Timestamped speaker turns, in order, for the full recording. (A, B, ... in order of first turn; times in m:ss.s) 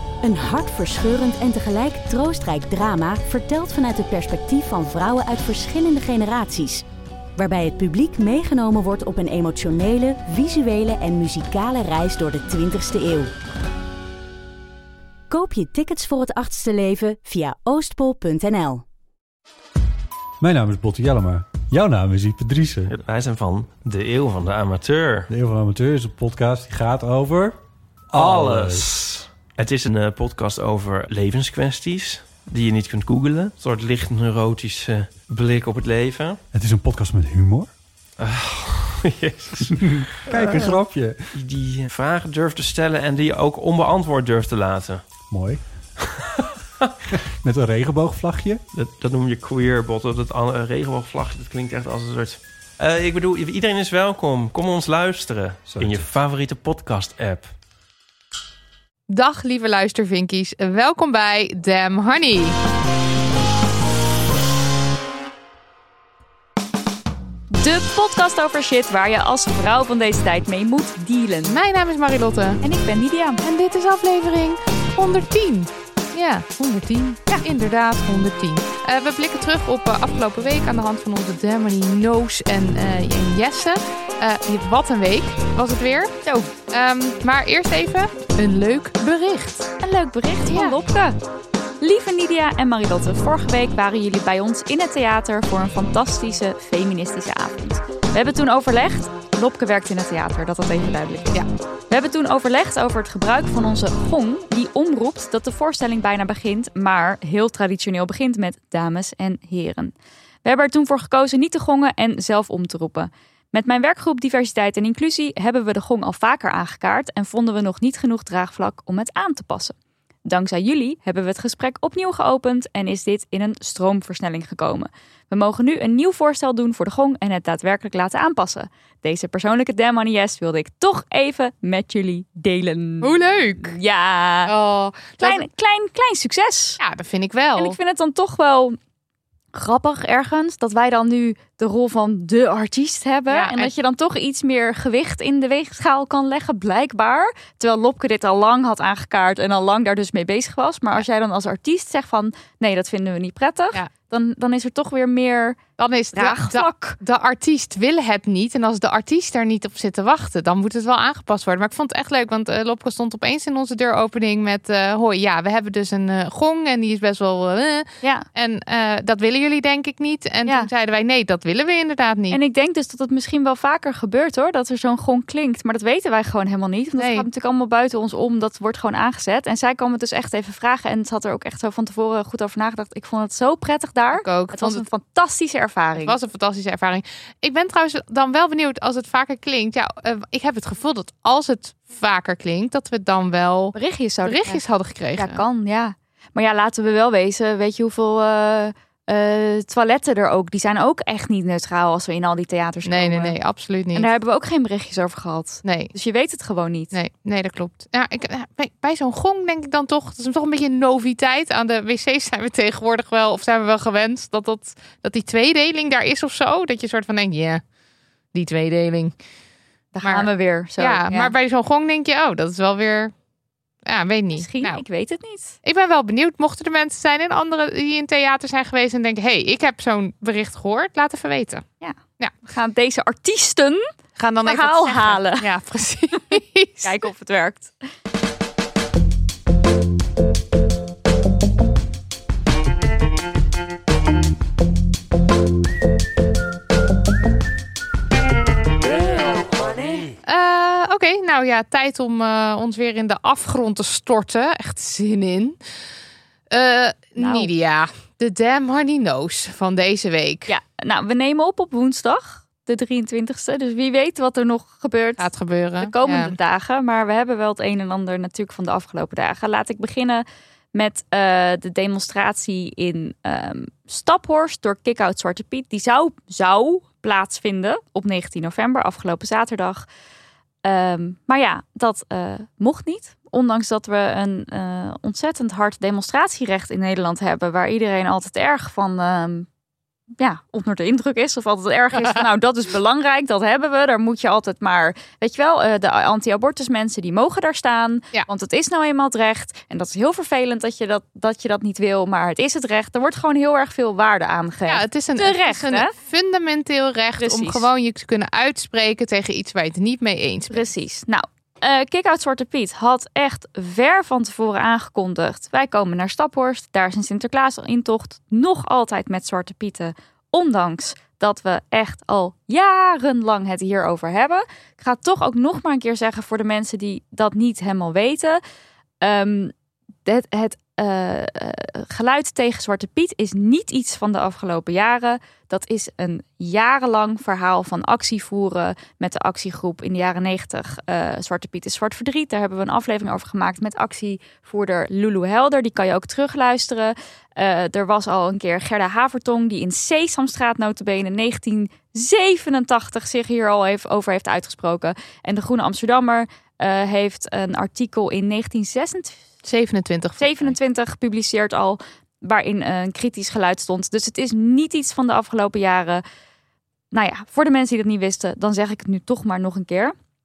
0:00.2-0:06.8 A
0:07.4-0:13.3 A
0:15.3-0:18.8 A
0:20.4-0:22.9 B
0:22.9-0:25.3 C
0:25.3-0:27.6 B
0:28.1-0:28.9 B
0:28.1-0:36.4 C
0:36.5-0:37.7 B
0:38.2-0:40.8 C
0:39.7-0:41.3 B
0:41.3-0:45.1 C
0:45.3-0:45.9 B
0:47.4-0:48.6 B
0:48.7-0:57.5 C
0:55.7-0:56.0 B
0:59.1-1:02.6 D
1:07.5-1:11.6 E
1:11.5-1:12.6 D
1:12.6-1:13.4 E
1:13.4-1:29.7 D
1:26.2-1:26.5 E
1:29.8-1:31.2 E
1:30.5-1:30.8 D
1:31.8-1:41.3 E
1:41.9-1:49.9 E
1:50.4-1:59.7 E
2:00.3-2:14.5 E
2:13.0-2:13.8 D
2:14.4-2:15.4 D
2:15.2-2:16.8 E
2:16.8-2:17.8 D
2:17.6-2:18.8 E
2:19.5-2:35.6 E
2:23.3-2:23.7 D
2:35.8-2:52.4 D
2:36.1-2:37.0 E
2:52.3-3:06.2 E
2:57.0-2:57.2 D
3:04.1-3:04.9 D
3:06.0-3:15.4 D
3:13.7-3:14.6 E
3:15.1-3:23.4 E
3:22.8-3:24.1 D
3:23.9-3:26.9 E
3:25.6-3:25.9 D
3:26.9-3:37.6 D
3:38.3-3:39.2 D
3:39.9-3:41.3 E
3:40.0-3:43.1 D
3:43.8-3:44.8 D
3:44.3-3:45.6 E
3:45.6-3:51.6 D
3:51.8-3:53.9 E
3:54.2-3:56.9 D
3:54.4-3:55.5 E
3:56.8-3:57.8 E
4:10.2-4:15.6 D
4:16.5-4:20.5 D
4:17.2-4:17.5 E
4:20.5-4:25.3 E
4:25.2-4:26.3 D
4:25.8-4:39.8 E
4:40.6-4:49.5 E
4:50.2-5:05.9 E
5:04.6-5:10.7 D
5:07.2-5:07.7 E
5:10.5-5:28.4 E
5:29.0-5:29.5 E
5:30.0-5:59.2 E
5:59.4-6:00.5 D
6:00.2-6:06.0 E
6:06.9-6:09.9 E